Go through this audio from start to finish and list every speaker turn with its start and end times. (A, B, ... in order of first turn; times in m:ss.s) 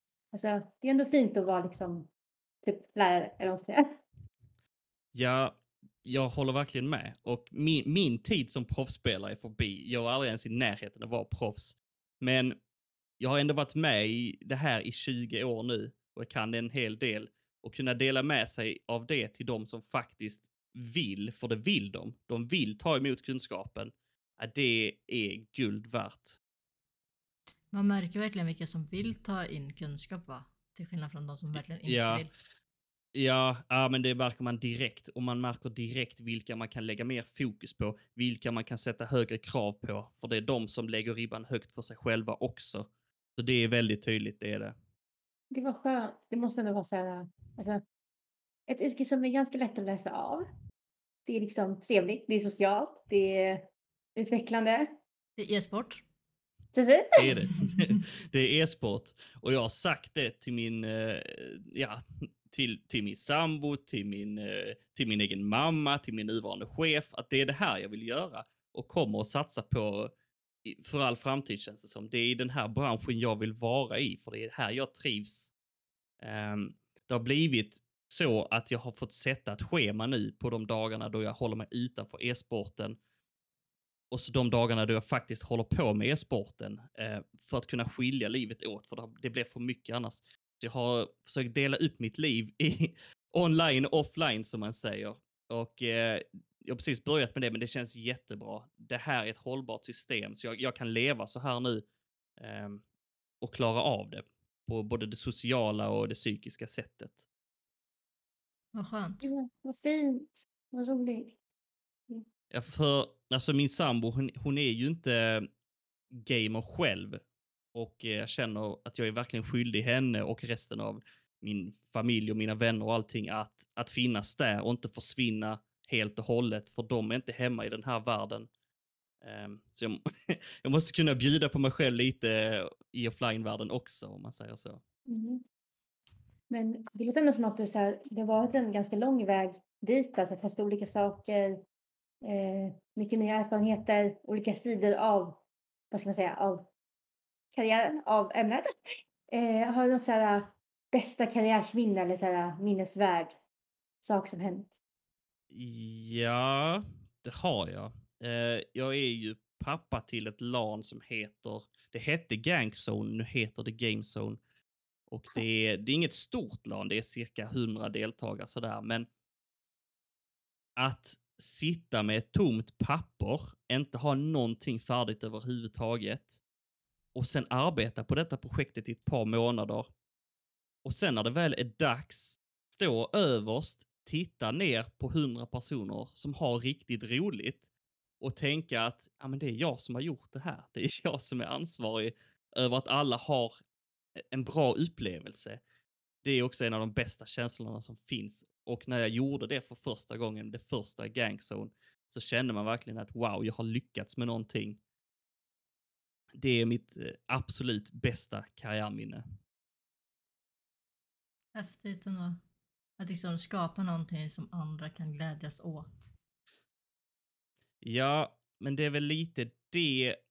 0:00.3-0:02.1 A
0:02.6-0:03.8 A
0:05.1-0:12.6 B
0:13.2-0:26.4 B
0:27.7-0:32.3 C
0:31.8-0:32.2 B
0:33.1-0:44.7 B
0:45.5-0:47.8 A
0:48.7-0:50.5 A
0:51.2-0:55.0 A
0:55.4-0:56.0 C
0:56.7-0:57.4 A
0:57.2-1:10.1 B
1:10.6-1:15.5 B
1:16.2-1:23.0 B
1:24.1-1:41.8 B
1:42.4-1:42.8 B
1:43.4-1:47.2 B
1:48.7-1:49.3 C
1:49.2-1:51.4 A
1:52.5-1:55.5 B
1:56.1-1:57.2 B
1:57.7-2:08.5 B
2:09.2-2:14.8 B
2:15.1-2:15.4 A
2:16.5-2:21.6 A
2:22.2-2:26.7 A
2:27.5-2:28.7 A
2:29.3-2:33.3 A
2:34.0-2:34.7 A
2:35.5-2:44.4 B
2:45.1-2:49.1 B
2:50.8-2:56.4 B
2:57.1-2:59.9 B
3:00.8-3:07.7 B
3:08.2-3:13.6 B
3:14.2-3:15.6 B
3:16.2-3:24.8 B
3:26.4-3:29.2 B
3:31.5-3:32.4 C
3:33.0-3:36.1 C
3:37.8-3:40.2 B